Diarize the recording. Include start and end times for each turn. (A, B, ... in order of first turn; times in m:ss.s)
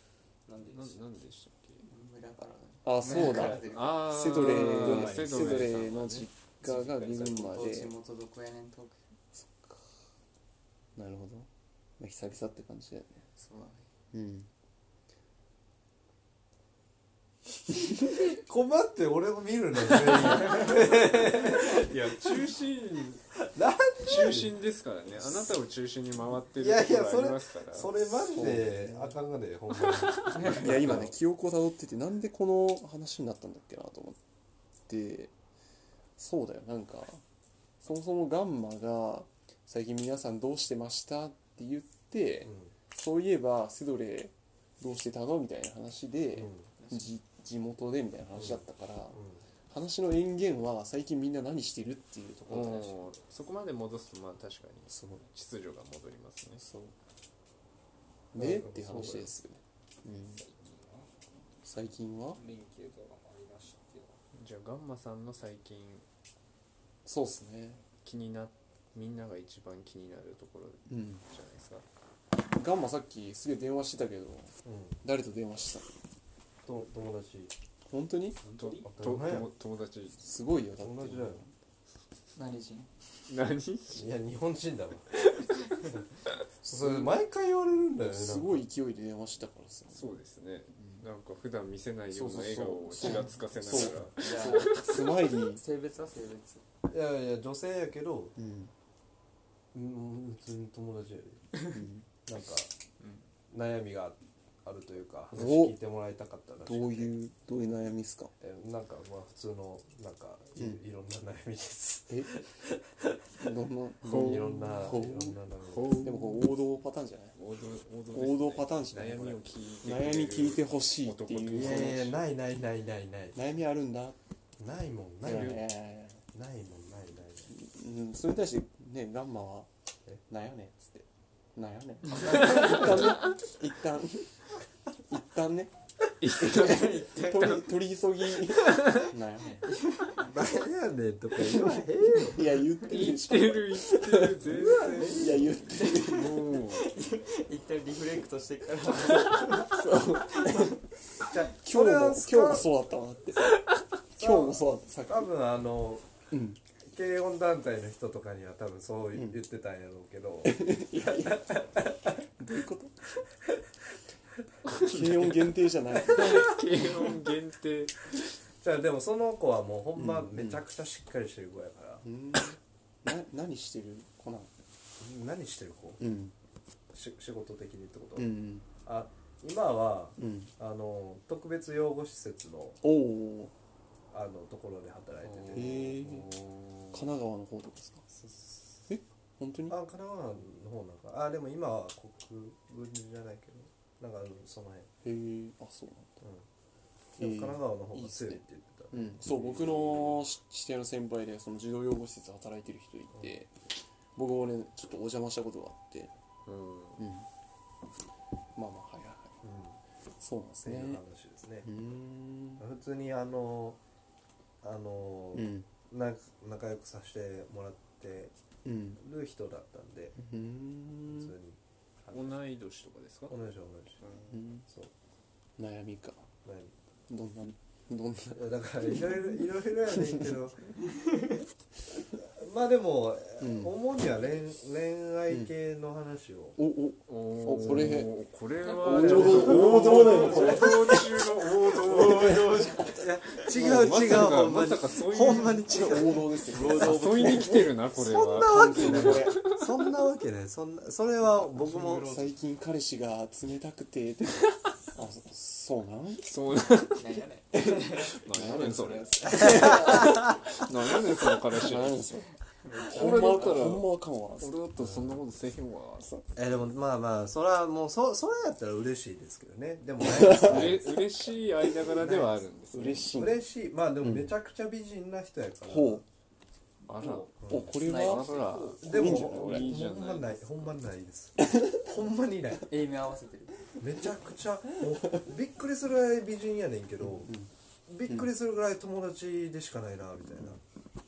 0:00.5-0:01.0 A
0:00.7-0:01.9 B
0:01.8-0:04.1 C
0:02.8-0:07.9 D
0:03.2-0:06.3 B
0:04.3-0:06.0 A
0:06.6-0:07.8 A
0:07.4-0:09.1 C
0:09.3-0:10.0 D
0:11.0-0:11.5 D
0:12.0-0:13.2 D
0:13.4-0:13.9 C
0:14.1-0:14.5 D
0:17.8-0:22.4 E
0:21.3-0:23.2 B
0:23.4-0:24.5 E
0:24.0-0:28.4 B
0:26.5-0:31.1 E
0:28.2-0:29.2 D
0:30.3-0:34.2 D
0:34.9-0:35.3 D
0:36.2-0:37.2 D
0:37.8-0:53.0 D
0:42.4-0:42.7 E
0:46.3-0:46.7 E
0:48.4-0:49.4 E
0:52.5-0:56.6 B
0:54.9-0:55.2 D
0:56.6-0:56.9 D
0:58.3-1:00.4 D
0:58.4-0:59.3 E
1:00.2-1:01.1 A
1:01.6-1:02.4 D
1:02.4-1:04.2 A
1:04.3-1:06.0 B
1:07.0-1:07.8 D
1:07.9-1:11.8 B
1:10.9-1:11.2 D
1:12.5-1:15.9 D
1:14.6-1:15.0 E
1:16.6-1:17.5 E
1:17.9-1:18.4 D
1:18.4-1:18.9 A
1:18.5-1:20.2 B
1:18.8-1:19.5 E
1:20.2-1:21.5 D
1:20.8-1:21.4 E
1:22.4-1:22.9 C
1:23.3-1:24.1 B
1:23.9-1:25.2 E
1:25.2-1:26.4 B
1:26.6-1:27.2 D
1:26.6-1:28.6 E
1:28.0-1:30.1 D
1:29.9-1:35.0 B
1:30.8-1:31.0 D
1:32.1-1:35.6 D
1:34.2-1:36.6 C
1:36.9-1:38.4 E
1:38.4-1:38.7 D
1:39.7-1:41.4 E
1:41.7-1:42.0 D
1:42.2-1:42.7 E
1:43.5-1:47.1 E
1:45.3-1:45.8 D
1:46.6-1:48.3 D
1:48.4-1:52.8 E
1:50.6-1:50.8 D
1:52.1-1:52.4 D
1:53.4-1:55.4 D
1:54.0-1:54.9 B
1:54.0-1:56.0 E
1:55.6-1:56.5 B
1:56.0-1:57.4 D
1:57.4-2:02.1 B
1:58.1-2:02.2 D
2:01.5-2:03.4 E
2:03.4-2:04.2 D
2:04.6-2:05.6 E
2:05.2-2:06.2 D
2:05.2-2:05.6 B
2:06.3-2:07.5 E
2:07.5-2:09.7 D
2:10.3-2:14.4 D
2:12.4-2:13.3 B
2:15.1-2:15.7 D
2:16.2-2:17.7 B
2:16.3-2:19.6 D
2:16.5-2:17.6 C
2:18.5-2:19.1 B
2:19.4-2:20.2 C
2:20.2-2:22.6 E
2:22.3-2:26.4 D
2:22.8-2:26.9 B
2:24.5-2:25.5 E
2:25.7-2:30.8 C
2:29.4-2:30.8 D
2:31.2-2:32.7 E
2:31.6-2:33.6 D
2:34.2-2:35.2 D
2:34.2-2:36.1 E
2:36.3-2:36.6 D
2:36.8-2:42.2 E
2:39.1-2:39.4 D
2:40.4-2:41.5 D
2:42.2-2:43.0 D
2:44.7-2:48.0 B
2:44.7-2:46.5 D
2:48.6-2:52.0 E
2:50.0-2:50.6 D
2:52.0-2:54.5 D
2:55.0-2:56.0 E
2:56.0-2:56.3 D
2:56.9-3:02.8 E
2:58.2-2:58.7 D
3:00.2-3:00.5 D
3:02.8-3:03.5 D
3:04.1-3:06.0 E
3:05.2-3:07.1 B
3:05.5-3:06.3 D
3:06.9-3:08.0 D
3:08.1-3:08.9 E
3:08.9-3:09.8 D
3:09.7-3:14.9 E
3:15.0-3:16.2 D
3:17.2-3:19.6 E
3:17.2-3:23.5 D
3:19.5-3:20.1 B
3:23.1-3:23.4 E
3:24.1-3:26.1 D
3:26.5-3:27.0 B
3:27.0-3:27.3 D
3:28.6-3:29.4 D
3:29.4-3:29.8 E
3:30.2-3:31.0 D
3:30.6-3:31.8 E
3:31.6-3:32.6 D
3:32.6-3:33.8 E
3:34.6-3:38.3 E
3:35.3-3:35.7 D
3:38.6-3:39.0 D
3:39.0-3:40.2 E
3:40.2-3:41.3 D
3:41.0-3:42.3 E
3:42.1-3:43.4 B
3:43.3-3:44.0 E
3:44.3-3:44.6 D
3:45.6-3:46.2 D
3:46.4-3:46.7 E
3:47.1-3:49.2 D
3:48.3-3:50.7 E
3:49.9-3:50.3 D
3:51.0-3:51.3 C
3:52.2-3:56.6 E
3:53.4-3:53.8 D
3:56.6-3:58.1 D
3:57.1-4:02.8 B
3:57.6-3:57.9 E
3:58.7-4:00.9 C
3:58.8-4:01.0 D
3:58.9-4:01.0 E
4:01.8-4:03.0 C
4:01.9-4:06.3 E
4:03.5-4:05.9 B
4:03.6-4:03.9 D
4:05.7-4:07.7 D
4:06.5-4:07.7 C
4:06.7-4:09.8 B
4:07.9-4:12.1 E
4:08.4-4:09.5 D
4:11.4-4:12.3 C
4:12.0-4:16.3 D
4:16.2-4:17.2 B
4:17.0-4:20.1 C
4:18.1-4:22.0 B
4:18.3-4:20.2 D
4:19.3-4:20.3 E
4:21.5-4:22.3 D
4:22.6-4:23.7 C
4:22.9-4:26.2 B
4:22.9-4:24.6 D
4:24.8-4:25.2 E
4:26.4-4:31.0 E
4:30.0-4:30.8 D
4:30.2-4:33.2 B
4:32.0-4:32.4 E
4:32.7-4:33.4 D
4:33.1-4:36.0 E
4:34.0-4:34.3 D
4:35.6-4:36.0 D
4:36.9-4:40.7 B
4:37.4-4:37.7 E
4:37.5-4:39.8 D
4:37.8-4:38.8 C
4:38.8-4:42.7 E
4:42.7-4:43.7 C
4:43.8-4:47.3 E
4:47.0-4:47.5 D
4:47.9-4:50.6 E